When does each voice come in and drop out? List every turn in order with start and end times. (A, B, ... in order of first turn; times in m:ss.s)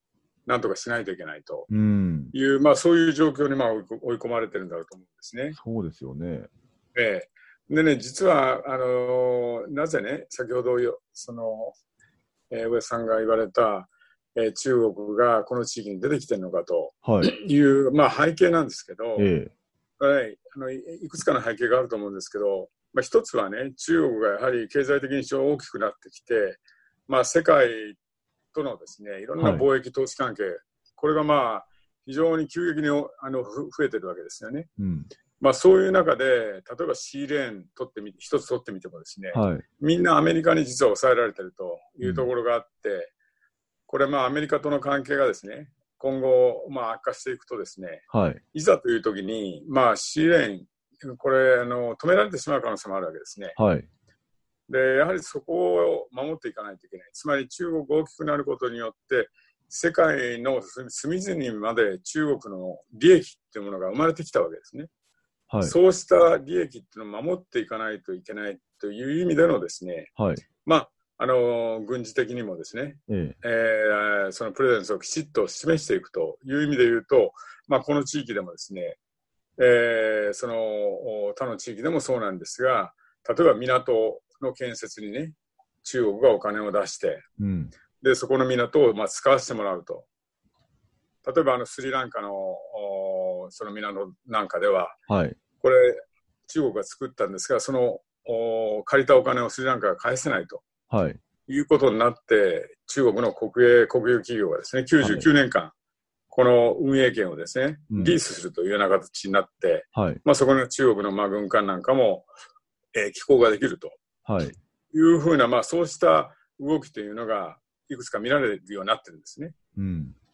0:00.5-0:01.7 A
0:01.7-0:02.3 B
0:02.3-0:05.6 A
0:05.5-0:06.5 B
0:07.0-0:11.8 A
0:12.5-0:19.3 A
0:17.0-0:17.3 B
0:19.2-0:19.5 B
0:20.0-0:28.0 A
0:28.5-0:34.7 A
0:29.4-0:29.7 B
0:34.8-0:35.1 B
0:35.4-0:43.1 A
0:39.3-0:39.6 B
0:42.0-0:42.3 B
0:43.9-0:53.6 A
0:48.1-0:48.4 B
0:53.6-0:53.9 B
0:54.7-1:04.9 A
1:05.5-1:05.8 B
1:05.6-1:10.1 A
1:10.2-1:10.4 B
1:10.6-1:19.0 A
1:13.1-1:13.4 B
1:19.6-1:27.3 A
1:27.4-1:27.7 B
1:28.0-1:30.1 A
1:31.2-1:35.0 A
1:35.1-1:35.4 B
1:35.6-1:40.7 A
1:40.9-1:41.2 B
1:41.5-1:45.7 A
1:45.0-1:45.3 B
1:46.3-1:52.3 A
1:47.9-1:48.2 B
1:49.9-1:50.2 B
1:52.9-1:54.0 A
1:54.3-1:54.6 B
1:54.9-1:59.6 A
1:59.8-2:00.2 B